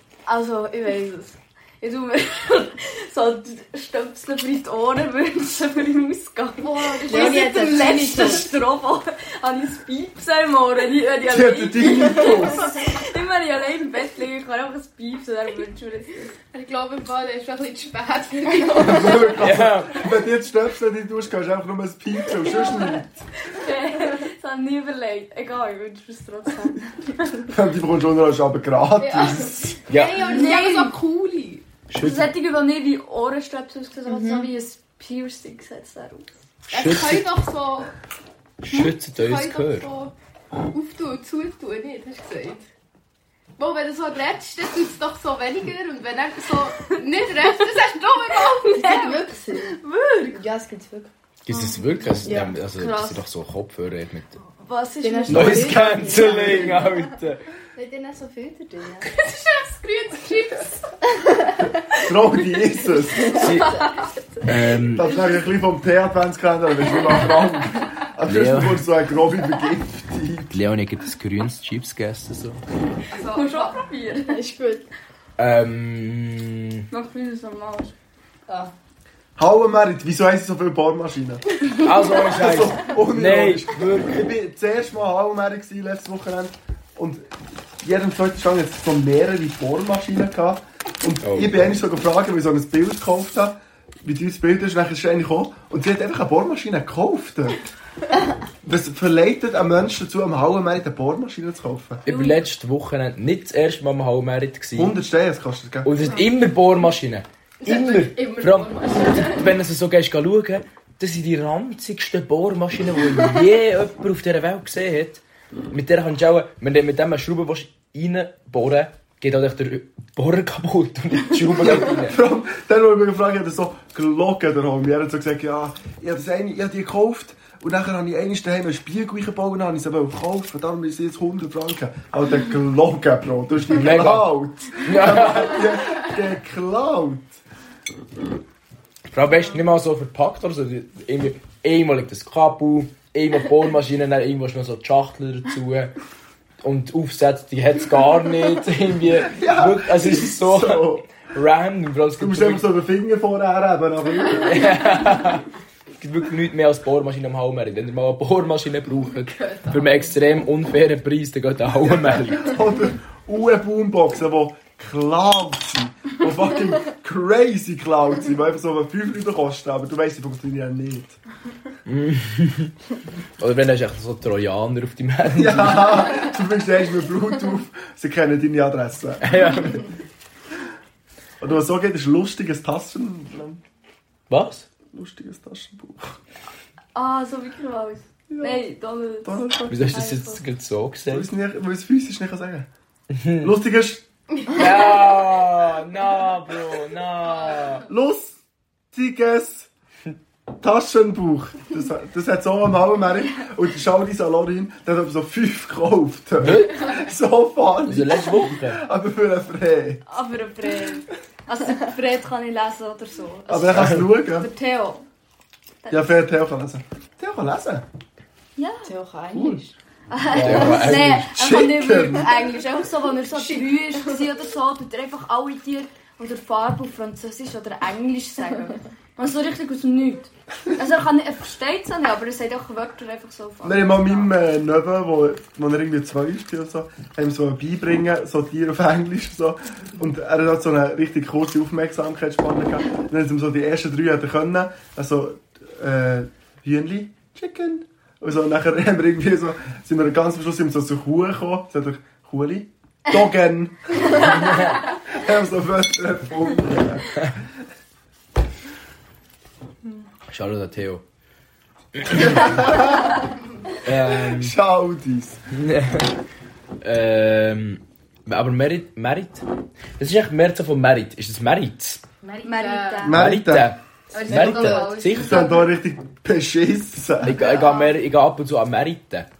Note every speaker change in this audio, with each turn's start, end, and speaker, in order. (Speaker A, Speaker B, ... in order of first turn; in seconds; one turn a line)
Speaker A: 0.3-16.4
Speaker B: 6.6-7.7
Speaker C: 7.0-8.5
Speaker D: 11.2-12.7
Speaker B: 16.5-19.4
Speaker D: 18.8-23.2
Speaker E: 19.4-20.0
Speaker A: 23.5-26.9
Speaker D: 27.5-29.7
Speaker B: 29.0-31.6
Speaker E: 29.9-30.4
Speaker A: 30.2-31.0
Speaker E: 31.9-32.3
Speaker A: 32.0-36.3
Speaker C: 34.1-34.3
Speaker E: 36.7-37.3
Speaker B: 36.7-37.9
Speaker E: 38.6-39.9
Speaker B: 38.7-40.1
Speaker B: 40.7-42.6
Speaker B: 43.6-49.0
Speaker A: 48.3-50.4
Speaker C: 48.8-49.8
Speaker C: 50.3-51.1
Speaker E: 51.5-54.4
Speaker A: 51.5-53.2
Speaker C: 52.2-52.5
Speaker A: 54.6-55.8
Speaker C: 55.0-57.0
Speaker E: 55.3-57.4
Speaker C: 57.7-59.1
Speaker B: 59.0-60.9
Speaker D: 62.0-63.4
Speaker C: 63.1-64.4
Speaker E: 63.3-63.9
Speaker B: 63.6-63.9
Speaker E: 64.4-65.1
Speaker D: 64.9-70.6
Speaker E: 68.2-68.8
Speaker E: 70.5-72.6
Speaker B: 73.1-73.9
Speaker A: 73.2-74.4
Speaker C: 74.3-74.9
Speaker E: 75.4-76.8
Speaker A: 76.9-77.9
Speaker D: 79.4-81.4
Speaker E: 81.8-84.2
Speaker D: 82.2-97.7
Speaker E: 91.2-91.6
Speaker D: 98.6-102.0
Speaker E: 102.0-104.9
Speaker A: 102.0-102.4
Speaker D: 104.7-105.9
Speaker E: 105.8-122.2
Speaker B: 107.6-109.5
Speaker D: 121.5-137.4
Speaker E: 133.7-135.7
Speaker E: 139.1-145.9
Speaker E: 146.6-152.7
Speaker D: 149.2-151.1
Speaker D: 152.2-154.7
Speaker E: 154.3-155.4
Speaker E: 156.0-162.6
Speaker B: 159.3-160.1
Speaker D: 162.1-171.2
Speaker E: 171.8-172.7
Speaker E: 173.4-176.3
Speaker D: 175.3-179.6
Speaker E: 179.2-179.9
Speaker D: 181.4-183.6
Speaker E: 184.3-184.7
Speaker D: 184.9-186.2
Speaker A: 186.9-190.4
Speaker D: 188.3-188.7
Speaker D: 189.2-190.0
Speaker E: 189.7-191.3
Speaker D: 191.1-192.7
Speaker E: 193.1-193.5
Speaker D: 193.4-194.0
Speaker E: 194.5-197.8
Speaker D: 197.9-198.4
Speaker D: 198.9-199.7
Speaker D: 200.6-210.0
Speaker E: 206.4-206.9
Speaker E: 207.9-208.8
Speaker A: 210.1-215.0
Speaker D: 213.5-214.5
Speaker E: 213.7-214.0
Speaker A: 215.8-216.1
Speaker D: 215.9-217.8
Speaker A: 218.6-218.9
Speaker C: 218.8-219.7
Speaker D: 219.3-219.6
Speaker A: 220.1-234.3
Speaker E: 220.3-221.2
Speaker D: 220.3-222.3
Speaker C: 223.3-224.2
Speaker D: 233.6-257.2
Speaker E: 260.3-261.0
Speaker E: 261.9-262.8
Speaker D: 262.1-263.1
Speaker E: 263.8-264.5
Speaker D: 264.1-265.4
Speaker E: 265.5-266.1
Speaker E: 266.8-269.4
Speaker E: 270.0-272.0
Speaker B: 272.2-273.1
Speaker A: 272.4-273.2
Speaker D: 273.0-273.7
Speaker E: 273.1-275.5
Speaker B: 274.1-275.7
Speaker C: 274.3-274.6
Speaker D: 275.1-277.4
Speaker E: 277.2-279.3
Speaker A: 277.3-278.0